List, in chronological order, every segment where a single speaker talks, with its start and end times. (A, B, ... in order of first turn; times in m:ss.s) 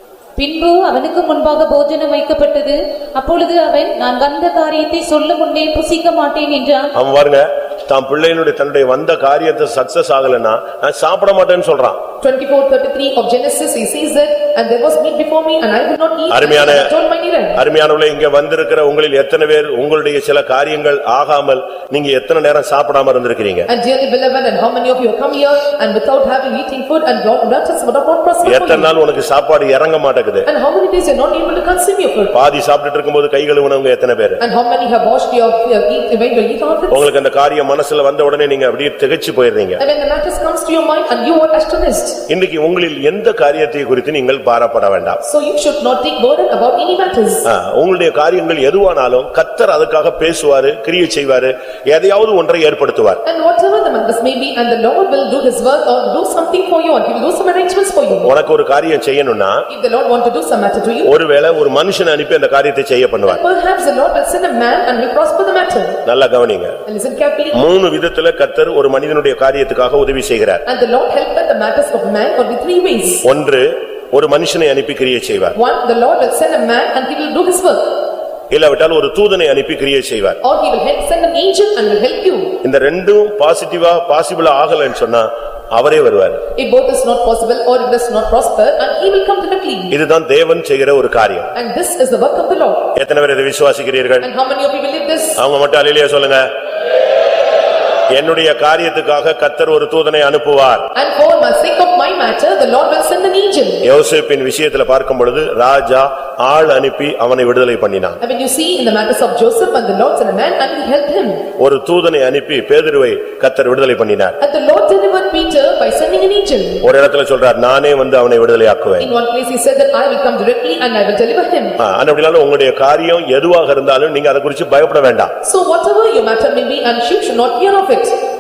0:00.4-0:06.9 A
0:06.9-0:12.0 B
0:12.2-0:17.6 C
0:16.3-0:16.9 B
0:17.6-0:23.7 B
0:23.7-0:28.9 C
0:28.4-0:30.5 B
0:30.4-0:32.3 C
0:32.3-0:34.4 B
0:34.4-0:37.1 C
0:36.9-0:39.8 B
0:39.8-0:42.2 C
0:42.3-0:45.2 B
0:45.2-0:47.4 C
0:47.4-0:53.2 B
0:53.2-0:58.3 C
0:58.2-0:59.7 B
0:59.7-1:01.1 C
1:01.0-1:03.4 B
1:03.2-1:06.0 C
1:06.1-1:06.8 B
1:06.9-1:07.7 C
1:07.5-1:10.6 B
1:10.7-1:13.2 C
1:13.2-1:15.6 B
1:15.5-1:18.0 C
1:18.5-1:20.4 B
1:20.4-1:22.6 C
1:22.6-1:26.4 B
1:26.6-1:30.0 C
1:29.9-1:31.5 B
1:31.5-1:32.9 C
1:33.0-1:34.3 B
1:34.2-1:35.4 C
1:35.4-1:36.4 B
1:38.1-1:40.9 B
1:40.9-1:43.8 C
1:43.8-1:48.2 B
1:48.2-1:51.5 C
1:51.6-1:54.4 B
1:54.4-1:56.9 C
1:56.8-1:59.1 B
1:59.0-2:01.8 C
2:01.8-2:05.3 B
2:05.4-2:08.1 C